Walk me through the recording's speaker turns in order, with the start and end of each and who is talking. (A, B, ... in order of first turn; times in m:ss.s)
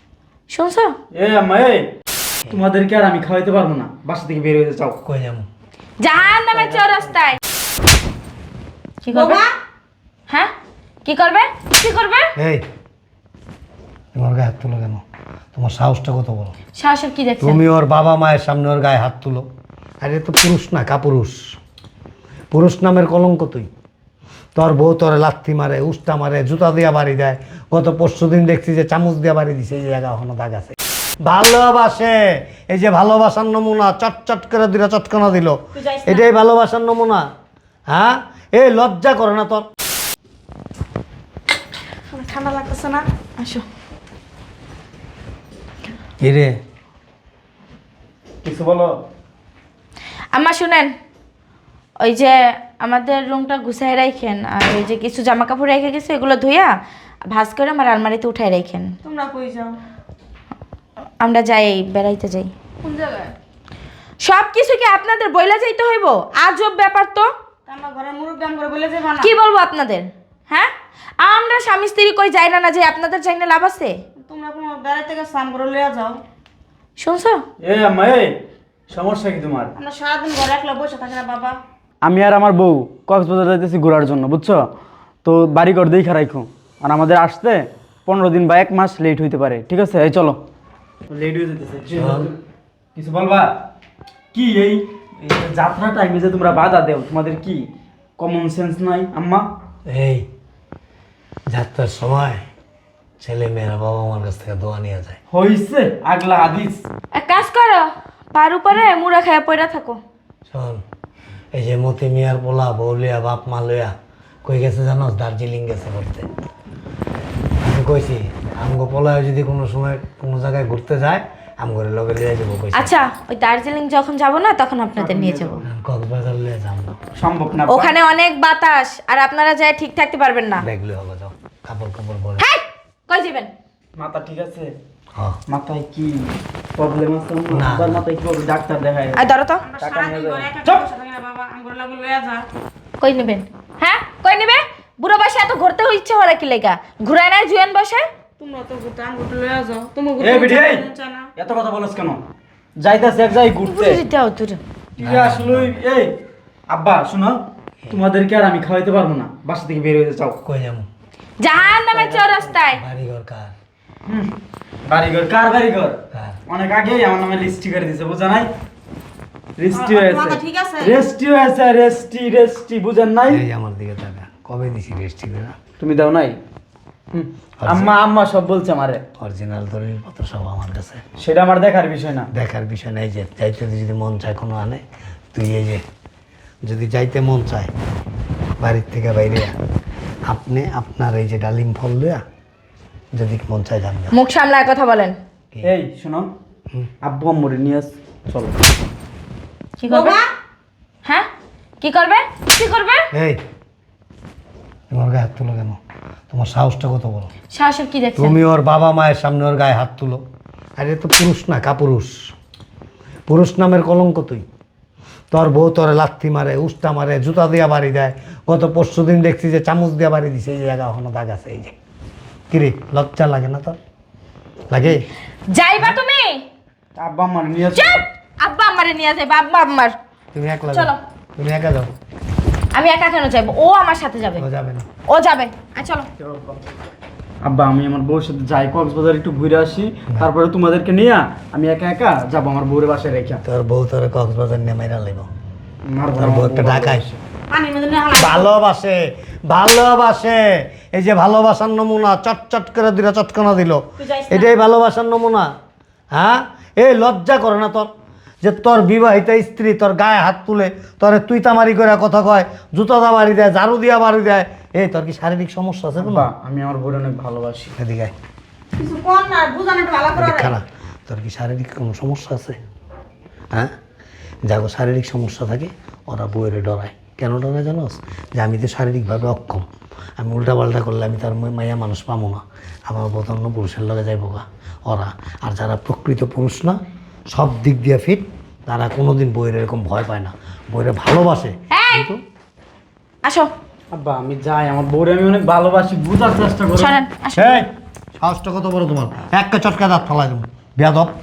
0:00.5-0:00.9 A
0:01.1-0:01.9 B
0:02.5-0:05.0 B
0:05.0-0:05.4 C
0:06.0-0:07.4 A
0:06.3-0:07.0 B
0:09.0-0:09.4 A
0:09.1-0:09.5 D
0:11.0-0:12.3 A
0:12.4-0:12.6 C
0:14.1-0:15.0 C
0:15.5-0:16.5 C
0:16.7-0:17.6 A
0:17.4-0:19.5 C
0:20.0-0:21.6 C
0:22.5-0:23.7 C
0:24.5-0:37.3 C
0:35.8-0:36.2 D
0:37.9-0:39.7 C
0:42.1-0:43.0 D
0:43.4-0:43.6 A
0:46.2-0:46.6 C
0:48.4-0:48.9 B
0:50.3-0:50.9 A
0:52.0-0:56.8 A
0:57.3-0:58.9 A
0:59.0-0:59.7 D
1:01.2-1:02.5 A
1:02.8-1:03.3 D
1:04.2-1:07.3 A
1:07.7-1:09.3 D
1:09.2-1:13.9 A
1:14.2-1:16.2 D
1:17.0-1:17.4 A
1:17.6-1:18.3 B
1:18.9-1:19.7 B
1:19.8-1:21.6 D
1:22.0-1:24.6 B
1:25.2-1:30.4 B
1:31.1-1:32.4 B
1:31.9-1:32.3 C
1:32.9-1:33.5 B
1:34.3-1:39.5 B
1:39.8-1:40.3 C
1:41.5-1:42.4 C
1:43.2-1:45.2 C
1:45.3-1:46.8 B
1:47.1-1:50.0 A
1:50.5-1:50.8 C
1:51.5-1:56.3 C
1:57.6-2:02.9 C
2:02.7-2:05.5 A
2:05.0-2:05.7 B
2:05.6-2:07.0 C
2:07.2-2:07.9 B
2:07.7-2:10.6 A
2:10.6-2:12.4 C
2:12.4-2:13.5 A
2:14.0-2:14.7 B
2:15.5-2:16.2 B
2:16.8-2:19.2 B
2:17.5-2:18.0 C
2:19.1-2:19.6 A
2:19.6-2:22.5 D
2:19.8-2:20.8 B
2:23.0-2:28.0 A
2:28.4-2:31.3 D
2:30.2-2:32.2 B
2:32.8-2:34.0 B
2:33.6-2:34.6 A
2:35.0-2:36.1 B
2:35.0-2:35.8 C
2:36.7-2:40.4 B
2:40.4-2:40.9 C
2:41.4-2:42.8 A
2:41.8-2:42.2 B
2:42.7-2:43.5 C
2:44.1-2:44.3 B
2:44.8-2:48.5 B
2:46.1-2:46.4 C
2:49.6-2:53.4 B
2:49.7-2:51.0 D
2:53.3-2:55.6 C
2:55.8-2:56.4 B
2:57.1-2:59.0 B
2:57.6-2:57.9 C
2:59.2-3:01.0 C
3:01.2-3:02.3 B
3:02.3-3:04.8 C
3:05.3-3:05.8 C
3:06.6-3:07.7 C
3:08.6-3:09.5 C
3:10.2-3:12.2 C
3:13.1-3:14.1 C
3:14.1-3:15.2 A
3:15.6-3:16.3 B
3:17.0-3:18.6 B
3:19.8-3:20.2 A
3:19.9-3:20.3 D
3:21.8-3:23.1 A
3:23.1-3:23.4 C
3:24.9-3:25.8 C
3:26.3-3:27.3 C
3:27.5-3:28.4 A
3:28.2-3:30.2 C
3:30.8-3:32.3 C
3:33.3-3:34.4 C
3:35.3-3:41.7 C
3:42.5-3:43.8 C
3:44.7-3:45.0 C
3:45.5-3:46.4 A
3:46.9-3:48.0 B
3:47.7-3:50.0 A
3:50.3-3:51.9 C
3:50.7-3:51.0 A
3:52.7-3:54.4 A
3:54.4-3:54.8 C
3:55.0-3:56.1 A
3:56.2-3:56.6 B
3:57.4-4:03.4 B
4:03.4-4:05.3 C
4:05.8-4:07.2 B
4:06.2-4:07.0 C
4:07.5-4:08.5 D
4:08.1-4:15.5 C
4:14.0-4:14.5 D
4:16.1-4:17.9 C
4:18.4-4:26.3 C
4:26.0-4:27.7 B
4:27.8-4:28.1 C
4:28.8-4:30.5 D
4:30.1-4:32.6 C
4:34.4-4:39.6 C
4:40.2-4:46.8 C
4:47.3-4:52.2 C
4:51.7-4:52.1 A
4:53.2-4:53.5 A
4:53.9-4:57.0 B
4:56.8-4:57.6 A
4:57.3-5:01.1 C